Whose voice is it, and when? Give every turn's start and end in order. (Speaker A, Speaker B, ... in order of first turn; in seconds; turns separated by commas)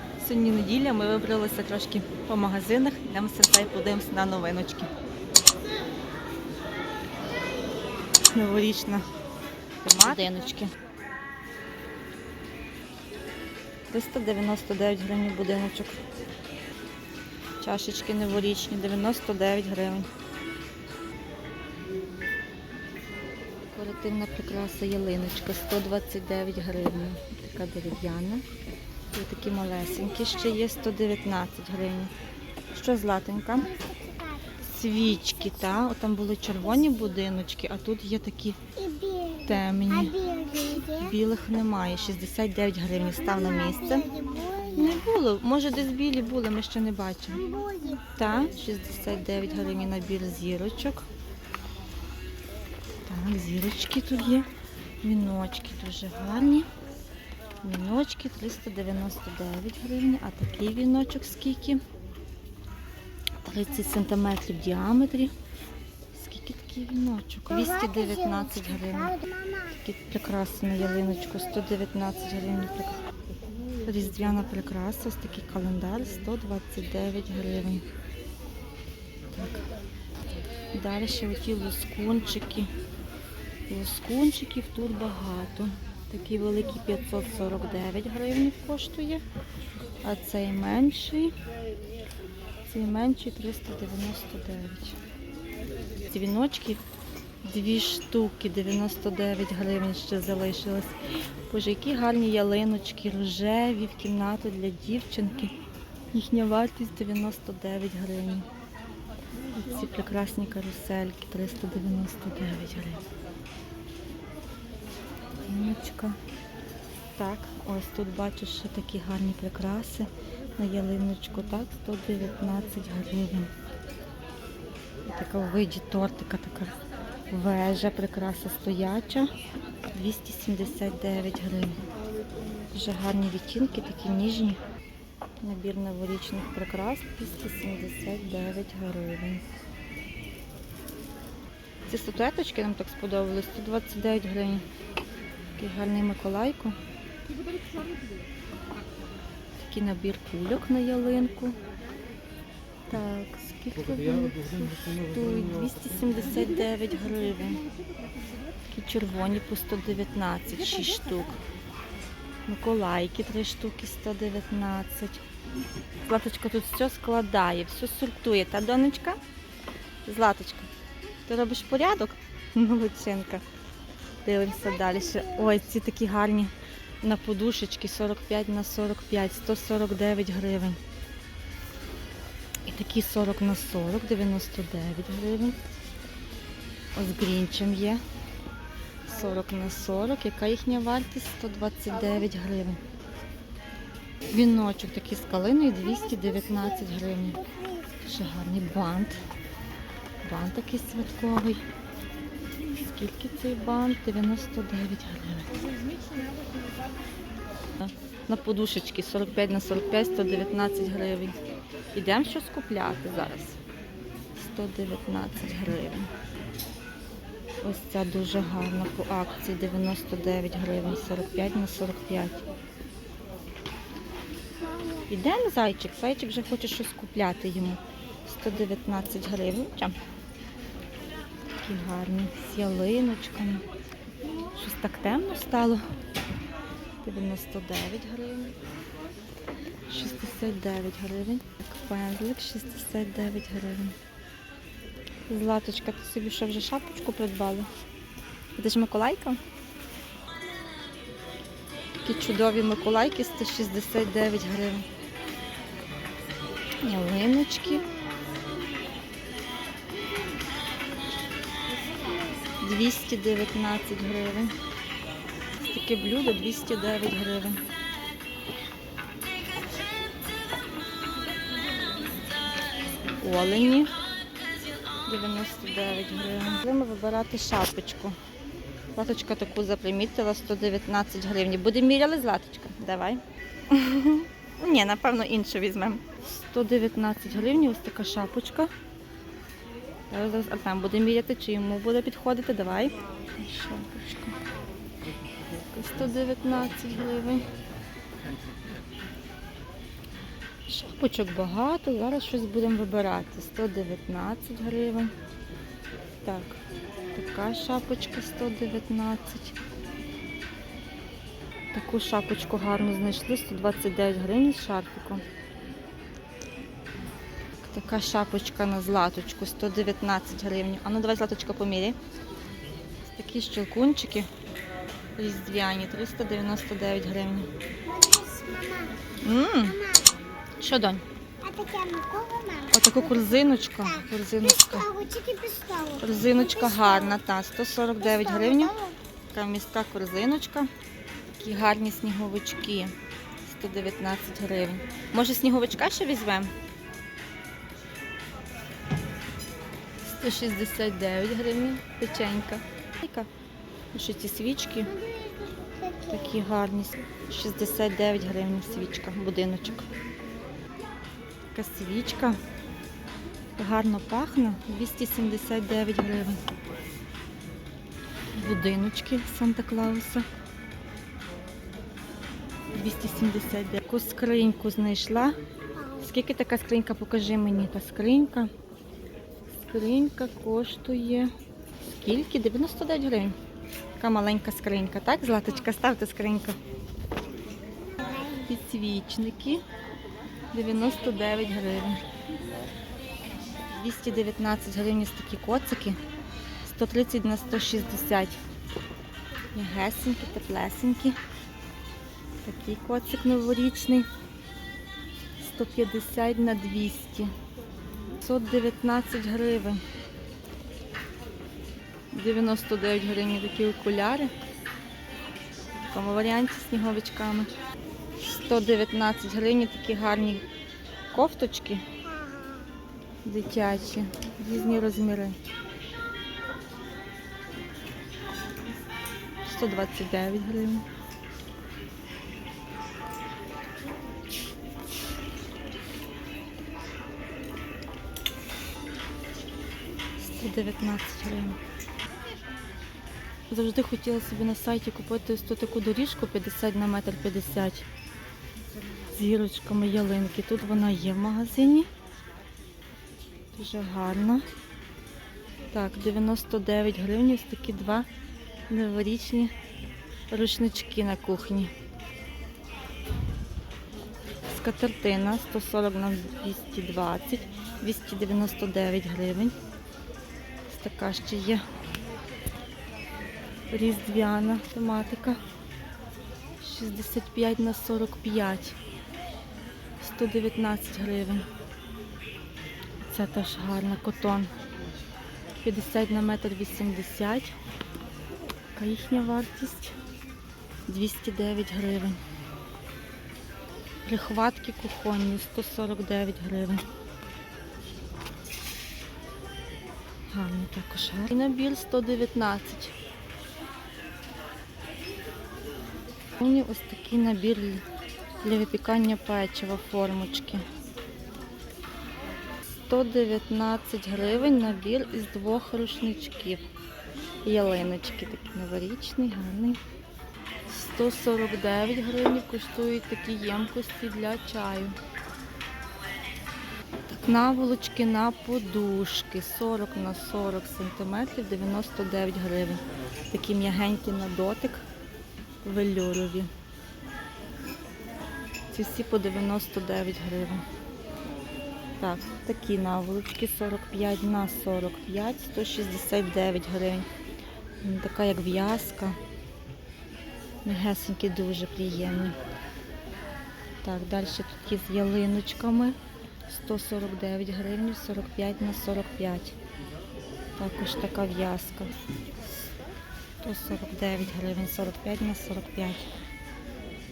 Speaker A: 0.2-4.9, Speaker A: 8.3-9.1, Speaker A: 9.8-10.7, Speaker A: 13.9-16.0, Speaker A: 17.6-20.1, Speaker A: 23.7-28.4, Speaker A: 29.1-32.1, Speaker A: 32.7-33.8, Speaker B: 33.7-34.5, Speaker A: 34.6-38.6, Speaker B: 38.8-41.0, Speaker A: 39.4-44.1, Speaker B: 43.3-44.8, Speaker A: 44.8-47.5, Speaker B: 47.4-48.0, Speaker A: 48.1-51.0, Speaker A: 53.1-56.7, Speaker A: 57.6-61.8, Speaker A: 63.4-65.3, Speaker A: 66.1-69.2, Speaker B: 68.0-69.7, Speaker A: 69.7-73.0, Speaker A: 73.8-77.8, Speaker A: 79.3-79.7, Speaker A: 80.7-82.7, Speaker A: 83.7-89.2, Speaker A: 90.0-91.3, Speaker A: 92.7-95.0, Speaker A: 96.0-96.8, Speaker A: 97.4-100.9, Speaker A: 101.5-105.5, Speaker A: 106.1-108.5, Speaker A: 109.5-113.0, Speaker A: 115.4-116.2, Speaker A: 117.2-123.5, Speaker A: 125.0-126.7, Speaker A: 127.3-129.3, Speaker A: 129.9-131.8, Speaker A: 132.7-134.6, Speaker A: 135.4-139.4, Speaker A: 141.9-144.7, Speaker A: 145.6-146.8, Speaker A: 149.6-151.6, Speaker A: 152.9-157.7, Speaker A: 158.7-161.4, Speaker A: 162.4-165.2, Speaker A: 166.0-169.2, Speaker A: 170.1-170.7, Speaker A: 171.2-173.4, Speaker A: 174.2-180.8, Speaker A: 182.7-185.6, Speaker A: 186.9-188.0, Speaker A: 189.1-192.8, Speaker A: 194.3-197.4, Speaker B: 197.4-197.9, Speaker A: 198.0-199.2, Speaker A: 200.2-201.6, Speaker A: 202.7-205.6, Speaker A: 207.8-211.3, Speaker A: 211.9-213.6, Speaker A: 214.3-216.1, Speaker A: 217.6-222.4, Speaker A: 225.1-230.0, Speaker A: 231.6-233.7, Speaker A: 234.5-235.8, Speaker A: 237.0-238.5, Speaker A: 239.9-243.9, Speaker A: 245.3-247.7, Speaker A: 248.6-249.4, Speaker A: 252.0-254.8, Speaker A: 256.8-257.9, Speaker A: 262.6-264.5, Speaker A: 265.6-267.6, Speaker A: 273.2-274.0, Speaker A: 275.1-278.2, Speaker A: 278.9-288.7, Speaker A: 290.1-294.4, Speaker A: 295.6-297.5, Speaker A: 300.7-305.1, Speaker A: 306.2-306.6, Speaker A: 307.1-309.6, Speaker A: 311.7-315.2, Speaker A: 317.6-322.0, Speaker A: 323.1-324.3, Speaker A: 325.2-327.5, Speaker B: 327.9-329.0, Speaker A: 329.2-329.8, Speaker B: 329.6-330.1, Speaker A: 330.6-331.0, Speaker B: 331.4-333.0, Speaker A: 332.7-334.9, Speaker B: 334.7-337.2, Speaker A: 336.0-338.8, Speaker B: 338.2-338.9, Speaker A: 339.3-340.7, Speaker A: 341.4-346.5, Speaker A: 350.0-353.3, Speaker A: 353.9-355.0, Speaker B: 354.9-356.1, Speaker A: 356.1-359.9, Speaker A: 361.5-362.4, Speaker A: 363.6-366.4, Speaker A: 368.3-370.2, Speaker A: 372.7-375.4, Speaker A: 375.9-378.5, Speaker A: 379.7-381.3, Speaker A: 381.8-383.4, Speaker A: 384.0-386.6, Speaker B: 387.9-388.3, Speaker A: 388.3-389.6, Speaker A: 390.5-392.0, Speaker A: 393.7-396.0, Speaker A: 396.6-398.4, Speaker A: 399.5-401.2, Speaker A: 402.4-404.1, Speaker A: 405.4-407.3, Speaker A: 408.2-409.8, Speaker A: 412.1-414.3, Speaker A: 415.9-417.5, Speaker A: 418.2-420.4, Speaker A: 421.1-421.8, Speaker A: 423.2-425.4, Speaker A: 429.4-430.8, Speaker A: 440.2-441.6, Speaker A: 443.5-447.9, Speaker A: 449.1-451.9, Speaker A: 453.5-454.4, Speaker A: 455.7-458.1, Speaker A: 458.7-459.5, Speaker A: 460.3-461.7, Speaker A: 464.5-469.5, Speaker A: 470.7-471.6, Speaker A: 473.7-475.4, Speaker A: 476.6-478.8, Speaker A: 480.0-481.5, Speaker A: 483.0-484.5, Speaker A: 485.6-487.5, Speaker A: 488.8-489.9, Speaker A: 490.9-492.2, Speaker A: 494.1-496.8, Speaker A: 500.3-502.9, Speaker A: 506.4-507.8, Speaker A: 508.4-510.6, Speaker A: 512.9-516.6, Speaker A: 517.4-519.8, Speaker A: 520.7-525.0, Speaker A: 527.1-534.8, Speaker A: 535.6-536.5, Speaker A: 538.7-540.6, Speaker A: 542.0-547.1, Speaker A: 547.8-549.2, Speaker A: 550.6-552.4, Speaker A: 553.8-556.0, Speaker A: 556.5-559.5, Speaker A: 560.6-561.9, Speaker A: 563.4-566.1